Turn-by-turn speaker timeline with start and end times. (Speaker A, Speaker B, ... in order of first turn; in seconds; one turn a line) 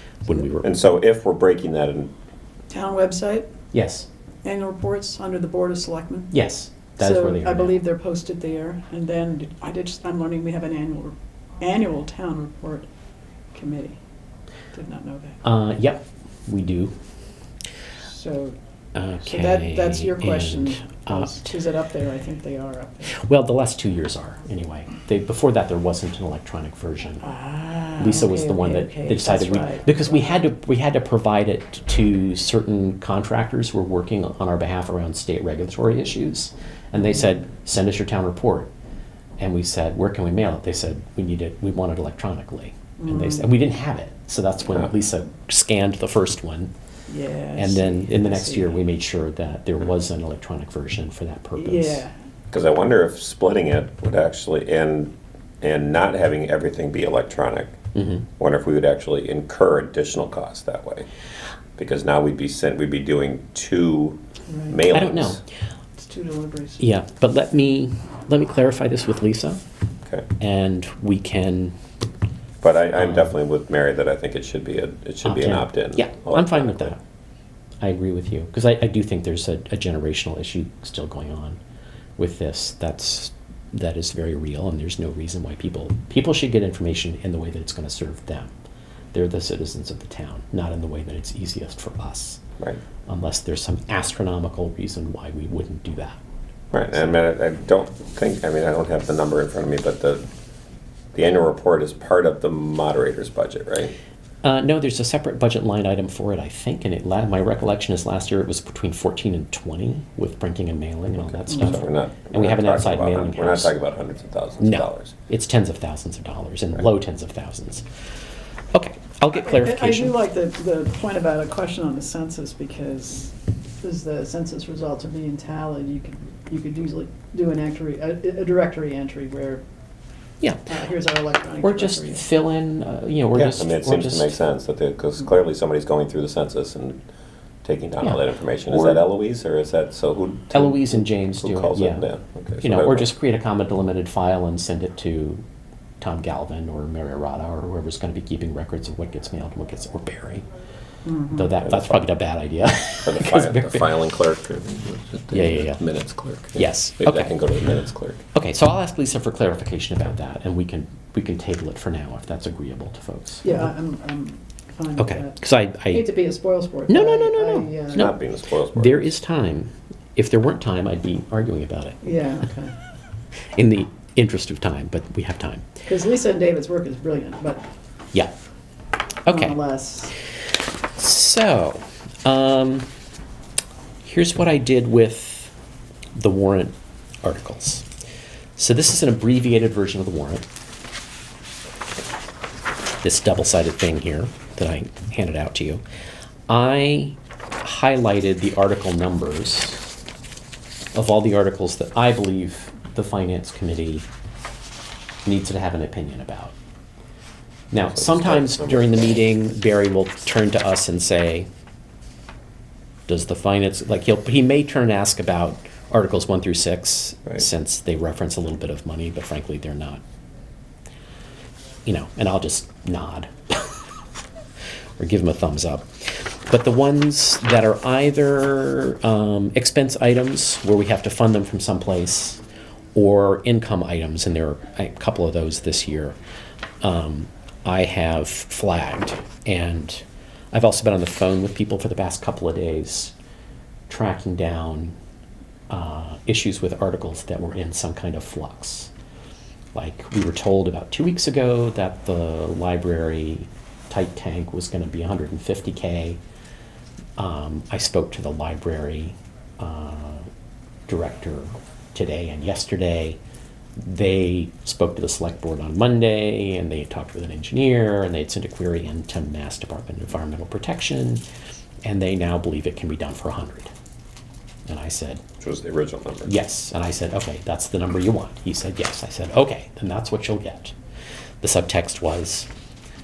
Speaker A: 0.2-0.8
Speaker B: 0.6-2.1
Speaker C: 2.7-3.5
Speaker A: 3.7-4.0
Speaker C: 4.4-6.3
Speaker A: 6.3-7.8
Speaker C: 7.0-12.9
Speaker C: 13.5-14.0
Speaker C: 14.7-15.4
Speaker A: 15.4-16.9
Speaker C: 18.0-18.6
Speaker A: 18.9-21.5
Speaker C: 19.2-23.2
Speaker A: 23.1-27.3
Speaker C: 27.2-30.4
Speaker A: 28.0-38.7
Speaker A: 39.4-46.7
Speaker C: 43.0-43.5
Speaker C: 47.1-48.8
Speaker A: 47.6-52.0
Speaker C: 51.6-52.1
Speaker B: 52.5-57.8
Speaker A: 57.9-58.2
Speaker B: 58.4-61.0
Speaker B: 61.8-65.4
Speaker C: 64.5-64.8
Speaker A: 64.9-65.4
Speaker C: 66.0-66.8
Speaker A: 66.8-69.6
Speaker A: 70.4-71.8
Speaker B: 72.6-77.0
Speaker A: 73.0-73.3
Speaker A: 75.2-77.0
Speaker A: 77.8-81.6
Speaker A: 82.2-88.5
Speaker A: 89.1-92.4
Speaker A: 93.1-96.2
Speaker B: 96.7-100.2
Speaker B: 101.1-103.9
Speaker A: 104.4-113.7
Speaker B: 111.2-115.1
Speaker C: 111.5-111.8
Speaker A: 114.6-117.8
Speaker A: 118.7-120.2
Speaker C: 119.3-129.6
Speaker C: 130.7-132.3
Speaker A: 131.6-134.4
Speaker B: 133.3-137.0
Speaker B: 137.6-143.1
Speaker A: 138.0-139.0
Speaker A: 140.5-142.1
Speaker A: 142.6-145.4
Speaker A: 146.0-150.4
Speaker C: 151.0-151.5
Speaker A: 151.3-153.9
Speaker B: 151.6-152.1
Speaker B: 153.0-158.2
Speaker A: 155.3-155.8
Speaker A: 156.5-157.5
Speaker A: 158.3-163.7
Speaker C: 163.4-168.1
Speaker A: 165.0-166.1
Speaker A: 166.9-172.1
Speaker B: 167.9-169.1
Speaker C: 172.0-172.7
Speaker A: 173.5-175.7
Speaker C: 175.8-177.7
Speaker A: 179.2-179.6
Speaker C: 179.3-180.1
Speaker A: 180.9-182.9
Speaker A: 184.0-185.5
Speaker A: 186.1-187.8
Speaker A: 188.6-190.4
Speaker A: 193.0-195.8
Speaker A: 196.5-199.9
Speaker A: 200.9-204.1
Speaker A: 205.2-206.5
Speaker A: 207.7-211.5
Speaker B: 207.9-208.9
Speaker A: 213.1-220.0
Speaker A: 221.8-223.7
Speaker A: 225.0-232.4
Speaker A: 232.9-236.2
Speaker A: 236.8-243.1
Speaker A: 243.9-244.9
Speaker A: 245.7-248.9
Speaker A: 249.7-256.2
Speaker A: 257.2-260.3
Speaker A: 260.9-263.2
Speaker A: 263.8-271.2
Speaker A: 271.8-273.7
Speaker A: 274.6-275.2
Speaker B: 275.4-276.3
Speaker A: 276.2-280.7
Speaker A: 281.4-282.5